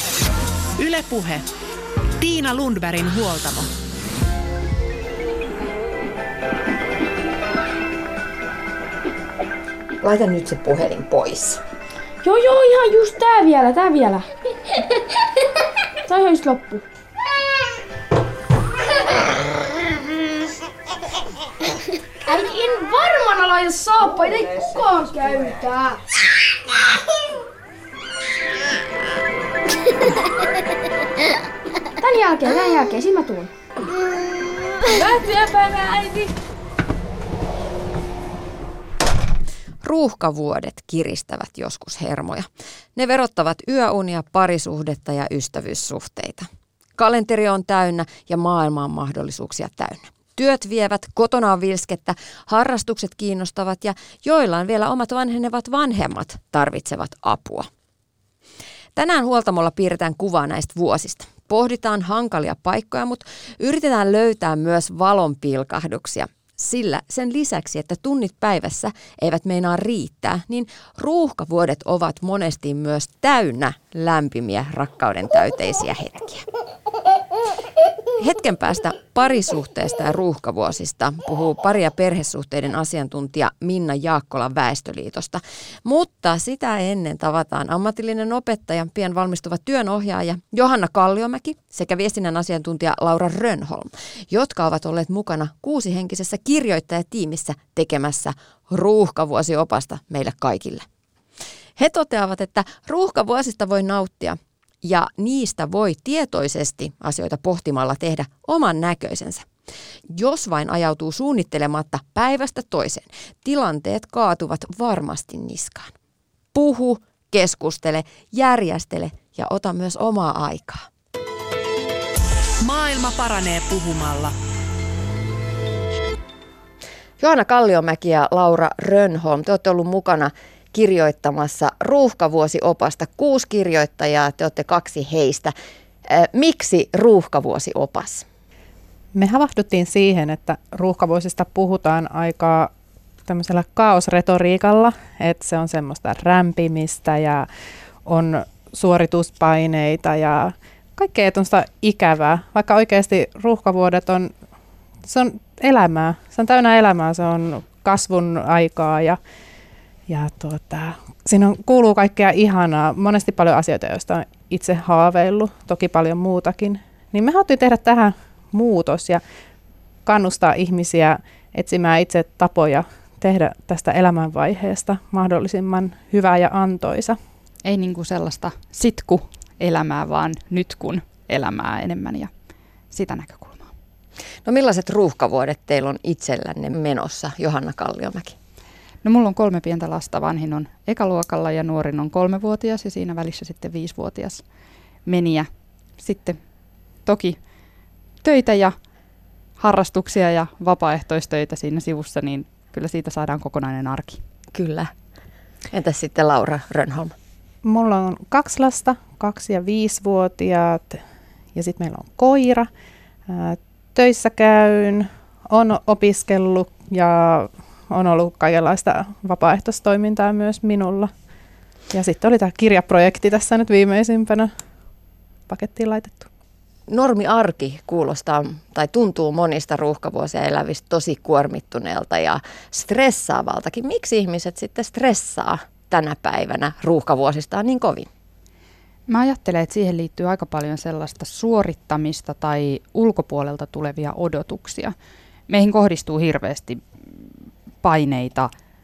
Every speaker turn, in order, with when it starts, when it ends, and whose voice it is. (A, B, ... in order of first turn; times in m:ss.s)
0:00.8-0:01.4 A
0:02.2-0:03.7 A
0:10.0-0:11.6 B
0:12.2-0:14.2 C
0:16.0-0:16.8 C
0:22.2-0:26.0 C
0:32.0-0:33.5 C
0:34.8-0:36.3 C
0:39.8-0:57.7 B
0:59.0-1:16.4 B
1:18.2-1:40.8 B
1:41.8-1:49.4 B
1:50.1-1:55.9 B
1:56.5-2:00.9 B
2:02.6-2:04.3 A
2:07.2-2:15.5 B
2:16.0-2:18.2 B
2:19.1-2:22.7 D
2:23.3-2:27.5 D
2:28.0-2:34.3 D
2:35.0-2:39.2 D
2:40.1-2:49.2 D
2:50.0-2:57.2 D
2:57.6-3:02.3 E
3:02.9-3:03.7 E
3:04.4-3:08.4 B
3:09.0-3:14.4 E
3:15.0-3:16.4 E
3:17.0-3:17.4 E
3:18.2-3:18.7 E
3:19.6-3:24.2 E
3:24.5-3:24.9 B
3:25.7-3:27.1 B
3:27.6-3:31.0 D
3:31.5-3:32.7 D
3:33.3-3:41.1 D
3:41.9-3:44.5 D
3:45.5-3:46.3 D
3:46.9-3:58.1 B
3:59.1-4:04.9 E
4:05.5-4:07.3 E
4:07.8-4:08.5 E